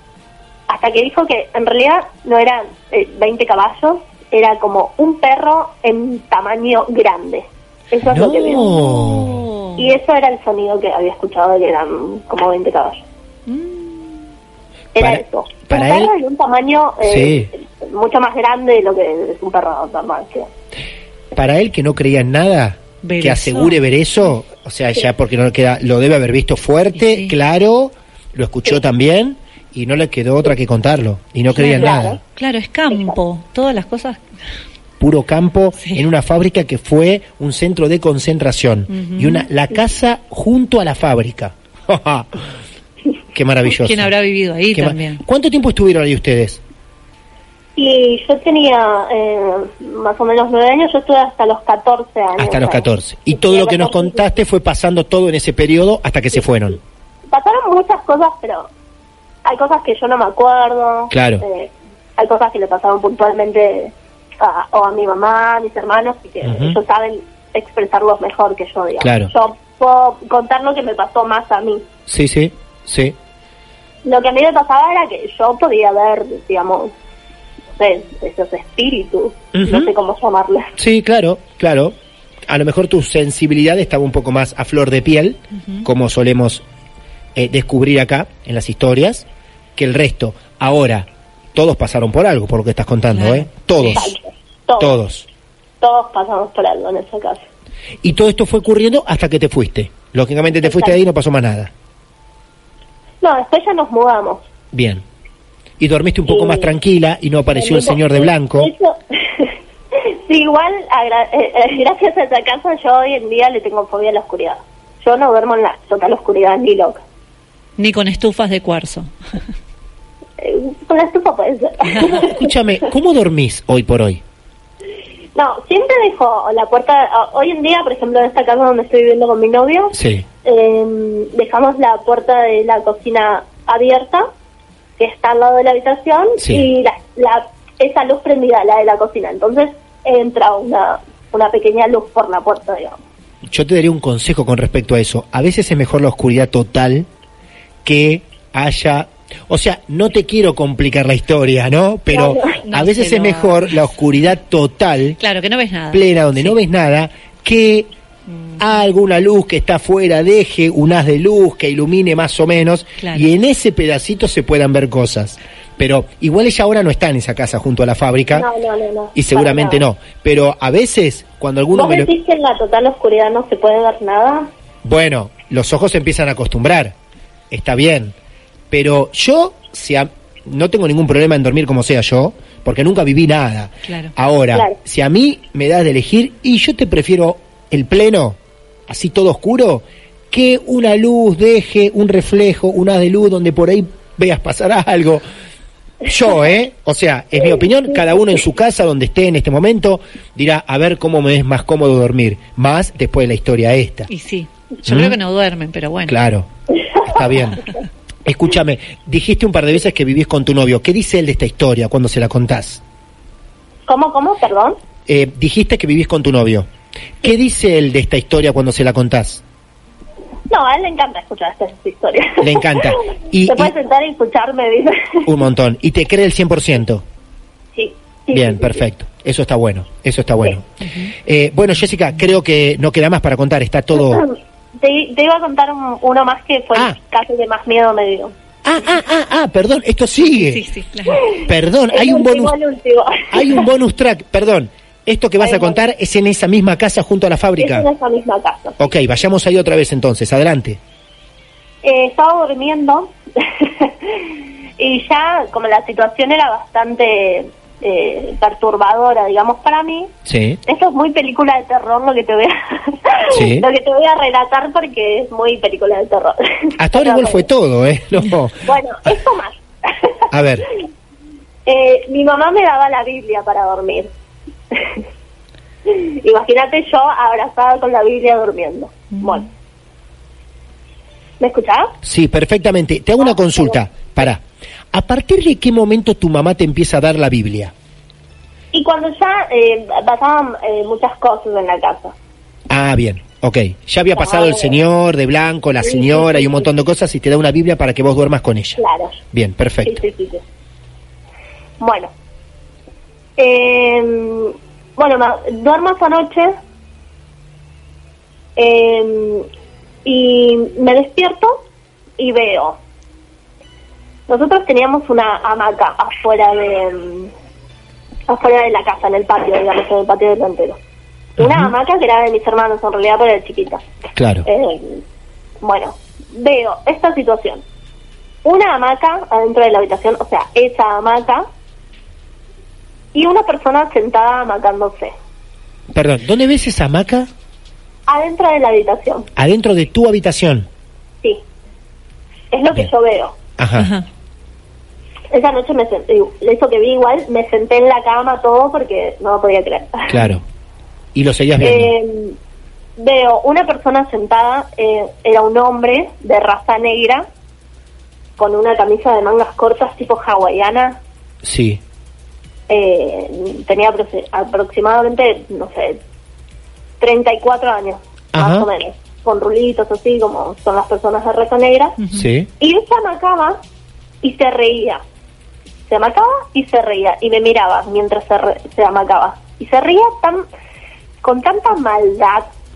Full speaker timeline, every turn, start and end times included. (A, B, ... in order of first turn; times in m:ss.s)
0:00.7-0:08.7 A
0:08.0-0:09.5 B
0:08.4-0:10.0 C
0:09.8-0:13.0 A
0:13.5-0:14.2 C
0:15.0-0:20.5 A
0:15.0-0:16.1 B
0:17.0-0:17.5 B
0:21.3-0:32.2 B
0:23.0-0:23.8 C
0:26.9-0:27.4 C
0:31.5-0:34.2 C
0:31.6-0:32.2 A
0:32.9-0:33.2 A
0:35.0-0:42.5 B
0:38.9-0:39.5 C
0:43.3-0:44.1 B
0:43.7-0:45.2 C
0:44.7-0:46.6 B
0:47.8-0:54.2 A
0:52.4-0:56.8 B
0:57.3-0:58.7 A
0:59.4-1:11.9 A
1:01.1-1:01.4 B
1:06.4-1:06.8 B
1:09.0-1:09.3 B
1:12.1-1:13.2 B
1:14.0-1:16.9 A
1:17.8-1:20.7 A
1:19.5-1:19.9 B
1:20.8-1:22.0 B
1:22.5-1:26.6 B
1:25.5-1:25.9 C
1:27.4-1:34.1 B
1:33.1-1:34.0 C
1:33.9-1:35.0 A
1:34.8-1:35.3 B
1:35.8-1:37.5 A
1:38.0-1:41.7 B
1:40.6-1:41.0 A
1:43.2-1:44.4 A
1:44.7-1:45.0 B
1:45.8-1:48.7 B
1:46.3-1:46.7 A
1:47.6-1:57.0 A
1:57.8-1:59.1 C
2:00.4-2:02.4 A
2:02.0-2:04.2 B
2:05.4-2:14.3 A
2:09.9-2:10.2 B
2:15.0-2:23.0 A
2:16.4-2:16.7 B
2:23.5-2:27.1 B
2:27.8-2:35.2 B
2:32.1-2:32.6 A
2:32.7-2:33.8 C
2:35.2-2:36.6 C
2:35.9-2:37.9 B
2:38.3-2:38.6 C
2:38.6-2:48.5 B
2:43.0-2:43.3 C
2:48.3-2:49.8 A
2:49.2-2:52.1 B
2:51.7-2:54.5 A
2:54.8-2:57.0 B
2:57.5-2:58.2 B
2:58.7-3:08.4 B
3:03.9-3:04.1 C
3:08.9-3:15.2 B
3:16.0-3:24.1 B
3:24.1-3:26.2 C
3:24.9-3:25.2 B
3:26.1-3:26.5 B
3:26.9-3:27.2 A
3:27.0-3:27.6 B
3:28.2-3:32.8 B
3:33.9-3:34.8 A
3:35.1-3:36.7 B
3:37.2-3:39.4 B
3:40.5-3:45.3 A
3:42.4-3:43.7 B
3:45.2-3:47.0 B
3:47.8-3:48.8 A
3:48.3-3:54.2 B
3:50.8-3:51.1 C
3:54.0-3:58.3 A
3:58.6-4:00.6 B
4:00.4-4:01.3 C
4:01.3-4:03.7 A
4:01.4-4:02.6 B
4:03.3-4:07.9 B
4:05.4-4:05.8 A
4:07.6-4:08.8 A
4:08.8-4:10.8 B
4:11.8-4:20.1 A
4:20.3-4:20.6 B
4:20.7-4:27.5 A
4:23.3-4:23.7 B
4:26.8-4:28.6 B
4:28.7-4:30.2 A
4:30.3-4:30.7 B
4:31.7-4:34.1 A
4:34.7-4:35.0 A
4:35.9-4:39.5 A
4:41.4-4:42.0 A
4:42.0-4:47.7 B
4:43.2-4:43.8 A
4:48.7-4:52.2 A
4:52.7-4:58.8 B
4:54.1-4:54.8 A
4:55.8-4:56.7 A
4:58.8-4:59.2 A
4:59.3-5:00.0 B
4:59.8-5:00.4 A
5:01.8-5:02.1 A
5:03.4-5:06.6 A
5:08.6-5:09.5 A
5:10.0-5:11.7 A
5:12.2-5:12.8 A
5:14.3-5:17.3 A
5:18.3-5:20.8 A
5:21.4-5:21.7 B
5:21.4-5:23.8 A
5:24.2-5:24.5 B
5:24.5-5:25.0 A
5:25.6-5:27.6 A
5:28.4-5:31.5 A
5:33.1-5:35.1 A
5:35.9-5:37.3 B
5:38.1-5:39.3 A
5:39.4-5:40.7 B
5:42.5-5:43.4 A
5:43.6-5:43.9 B
5:43.8-5:44.1 C
5:45.3-5:50.2 A
5:50.1-5:50.4 B
5:51.2-5:51.9 B
5:51.6-5:52.4 A
5:53.0-5:57.3 A
5:58.4-6:01.0 A
6:01.4-6:01.8 B
6:02.7-6:06.0 A
6:07.0-6:12.0 A
6:08.3-6:08.7 B
6:12.0-6:12.3 C
6:12.1-6:12.5 B
6:12.6-6:13.6 A
6:14.2-6:15.0 A
6:15.9-6:20.4 A
6:21.2-6:22.5 A